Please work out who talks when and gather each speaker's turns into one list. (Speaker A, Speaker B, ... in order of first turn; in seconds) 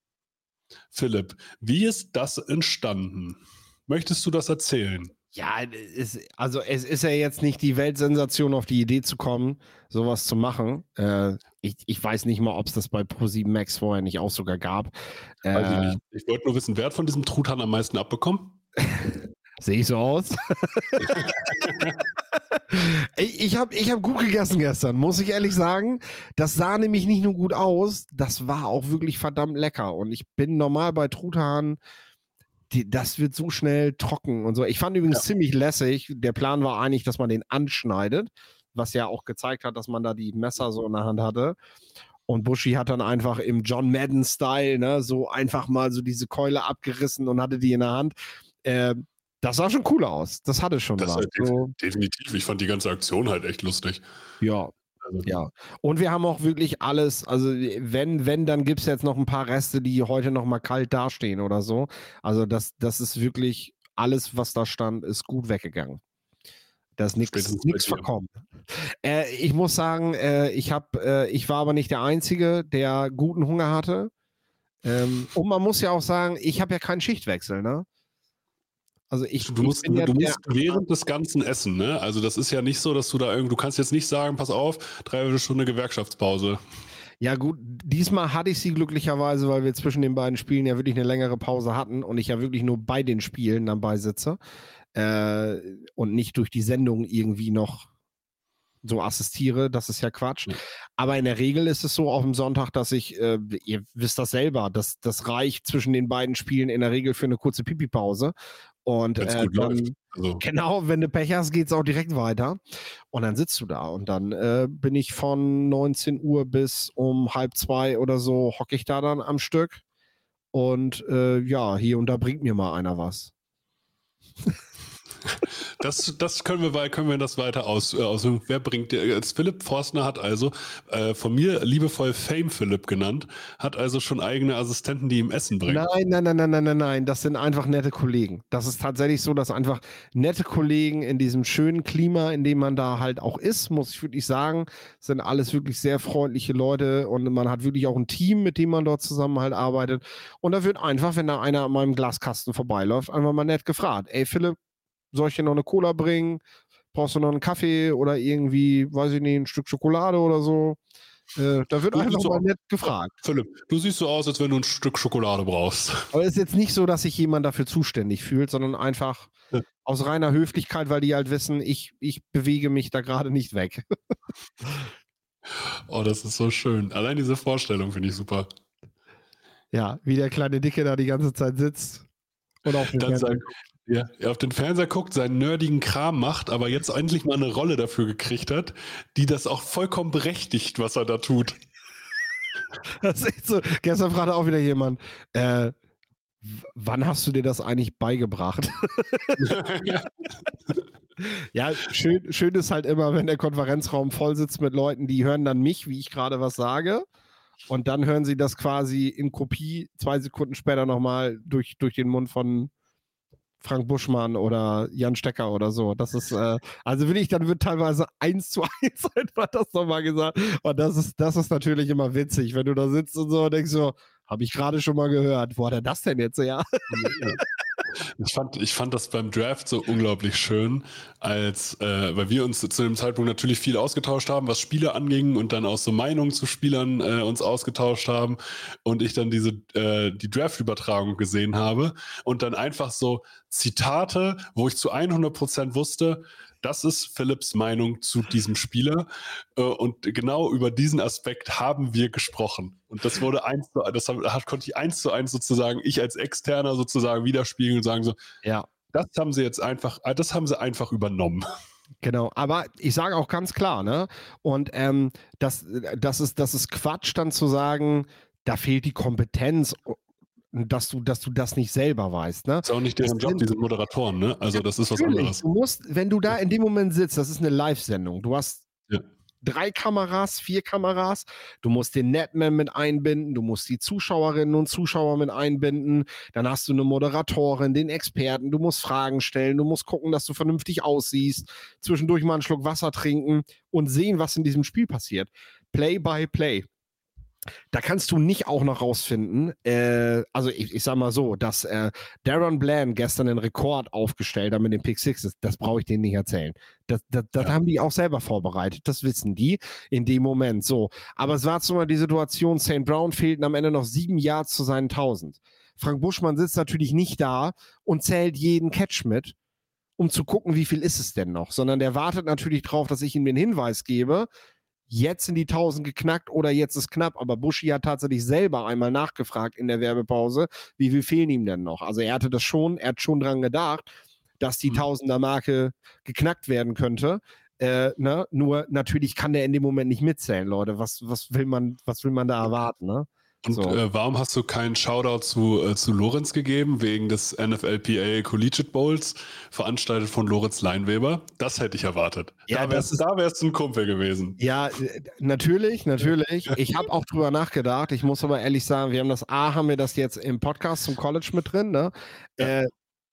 Speaker A: 0.9-5.1, 15.5-18.6, 21.1-22.0, 51.0-54.0, 67.3-68.0, 79.4-86.6, 109.2-110.4, 125.8-135.8, 161.9-162.4, 163.2-166.1, 175.6-178.5, 182.7-191.6, 199.4-200.1, 226.9-227.4, 227.9-258.2, 258.9-261.4, 272.6-275.4, 343.4-354.4
Speaker B: 5.3-14.9, 15.4-16.0, 19.6-21.7, 22.7-31.8, 32.7-41.5, 42.3-51.7, 54.4-54.7, 55.2-66.0, 67.0-68.3, 69.0-74.1, 74.8-77.8, 79.1-80.8, 87.2-94.4, 94.9-97.9, 98.8-108.3, 108.8-112.6, 113.1-119.8, 120.5-123.3, 135.7-154.6, 155.1-156.4, 156.9-160.8, 161.3-163.1, 166.1-169.3, 169.8-173.8, 179.7-182.1, 182.6-183.4, 193.0-195.7, 196.4-199.5, 201.2-207.0, 207.7-212.7, 213.6-227.4, 262.0-270.0, 270.5-273.4, 274.5-278.7, 279.4-296.7, 297.7-319.3, 320.0-324.3, 324.9-333.8, 334.4-343.8, 352.5-353.0, 354.4-362.7